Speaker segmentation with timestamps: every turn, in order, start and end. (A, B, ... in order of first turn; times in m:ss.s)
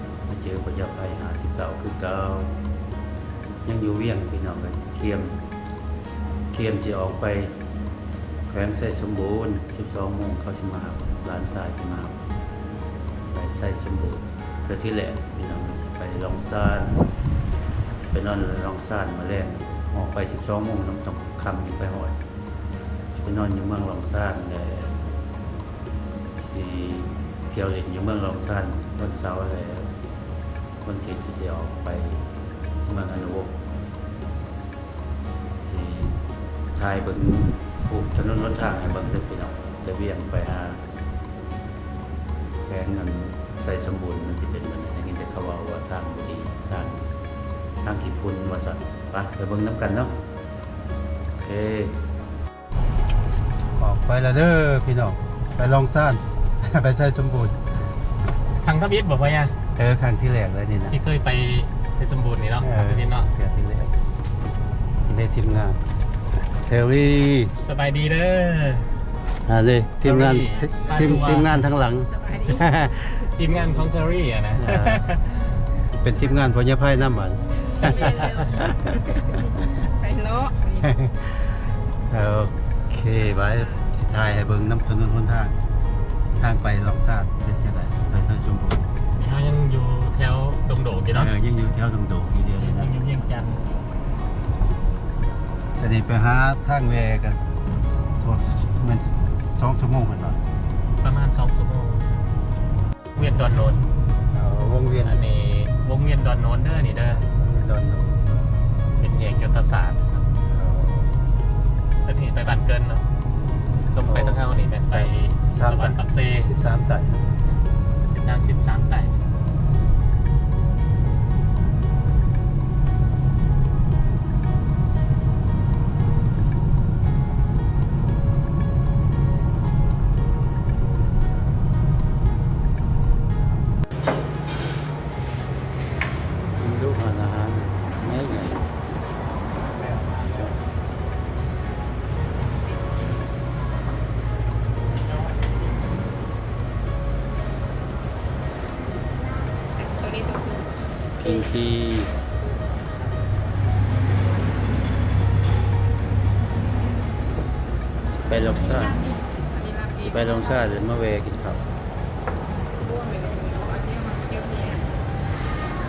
0:00.2-0:02.6 A
0:03.6-0:05.4 A
0:06.5-0:07.6 A
0:08.5-0:12.3 A
0:13.3-0:17.0 A
0:18.0-0:22.2 A
0:23.1-0:25.0 A
0:26.4-0:29.9 A
0:30.8-0:32.3 A
0:32.8-0:33.6 A
0:35.6-0:40.8 A
0:42.7-0:47.1 A
0:47.8-0:50.1 A
0:51.4-0:52.0 A
0:53.8-0:57.6 A
0:58.6-0:59.6 B
0:59.8-1:01.0 A
1:00.9-1:03.3 B
1:02.6-1:03.9 A
1:05.0-1:05.8 A
1:06.6-1:07.5 A
1:07.5-1:09.0 B
1:09.4-1:13.7 A
1:10.0-1:11.7 B
1:13.2-1:15.5 B
1:14.6-1:15.1 A
1:16.0-1:19.8 A
1:19.9-1:20.6 C
1:20.7-1:25.6 A
1:26.4-1:28.9 A
1:29.1-1:31.3 B
1:31.1-1:32.9 A
1:32.6-1:33.6 B
1:35.8-1:37.4 A
1:38.2-1:40.4 A
1:41.0-1:42.1 B
1:43.1-1:43.8 B
1:44.3-1:45.2 A
1:45.0-1:47.3 B
1:47.3-1:48.2 A
1:49.0-1:50.3 B
1:50.5-1:51.2 A
1:52.0-1:53.0 B
1:53.9-1:56.5 B
1:54.0-1:57.3 A
1:58.0-1:59.2 B
2:16.5-2:18.7 A
2:19.6-2:20.6 B
2:22.2-2:23.2 B
2:25.0-2:26.1 B
2:30.0-2:30.6 C
2:31.2-2:32.1 A
2:38.2-2:39.1 A
2:40.0-2:41.7 A
2:42.9-2:44.8 C